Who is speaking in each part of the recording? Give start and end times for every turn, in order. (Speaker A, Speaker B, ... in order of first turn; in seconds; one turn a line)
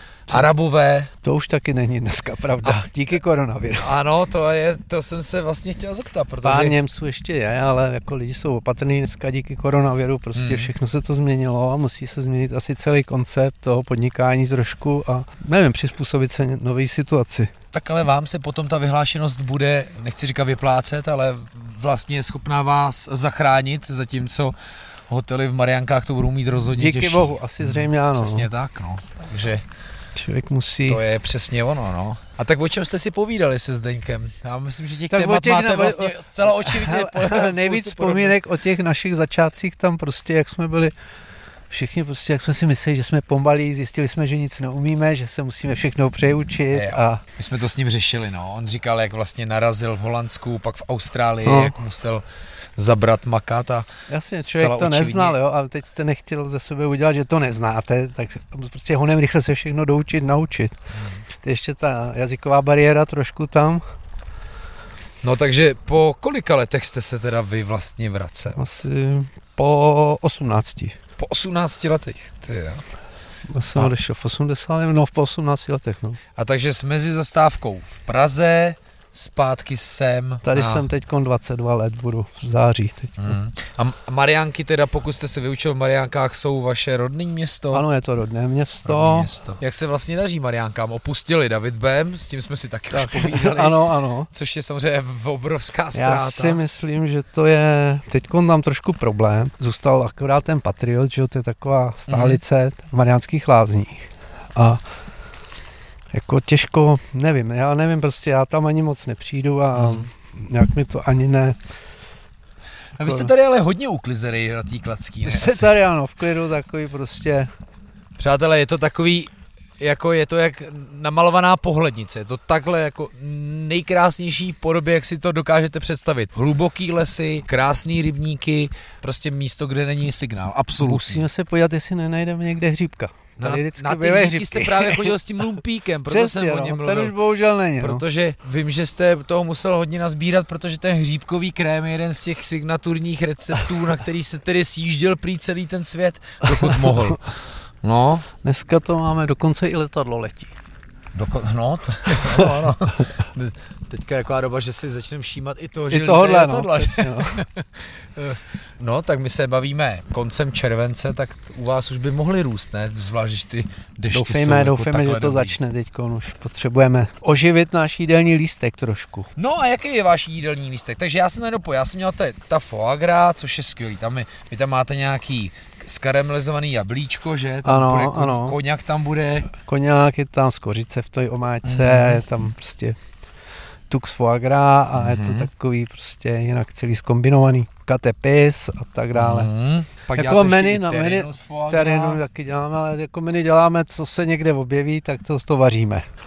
Speaker A: 0.3-1.1
Speaker B: 1.2-3.9
Speaker A: 3.8-6.8
Speaker B: 6.4-17.5
Speaker A: 10.3-10.7
Speaker A: 17.7-24.6
Speaker A: 25.1-29.6
Speaker B: 26.8-28.5
Speaker B: 30.1-31.0
Speaker A: 30.9-38.4
Speaker B: 35.1-40.9
Speaker B: 41.7-47.2
Speaker A: 46.7-52.2
Speaker B: 51.4-51.7
Speaker A: 52.8-55.4
Speaker B: 54.1-60.7
Speaker A: 60.9-61.2
Speaker B: 61.4-63.8
Speaker A: 65.2-68.6
Speaker B: 68.5-71.0
Speaker A: 71.2-72.8
Speaker B: 73.5-76.2
Speaker A: 76.3-80.8
Speaker B: 80.4-83.3
Speaker A: 83.2-87.8
Speaker B: 87.7-89.3
Speaker A: 88.8-96.6
Speaker B: 92.9-94.3
Speaker B: 95.9-104.8
Speaker A: 102.1-102.4
Speaker B: 106.1-111.6
Speaker A: 109.7-110.1
Speaker A: 113.0-115.7
Speaker B: 113.0-113.3
Speaker B: 115.2-117.5
Speaker A: 118.2-131.2
Speaker B: 130.8-135.2
Speaker A: 133.4-137.1
Speaker B: 136.1-138.0
Speaker A: 137.8-148.3
Speaker B: 146.6-147.1
Speaker B: 148.4-150.5
Speaker A: 151.1-165.6
Speaker B: 152.1-152.5
Speaker B: 155.9-157.4
Speaker B: 164.1-169.3
Speaker A: 169.3-179.5
Speaker B: 177.6-178.6
Speaker B: 179.5-183.0
Speaker A: 181.6-182.2
Speaker B: 183.9-189.5
Speaker A: 184.9-185.5
Speaker A: 189.1-192.2
Speaker B: 190.1-196.1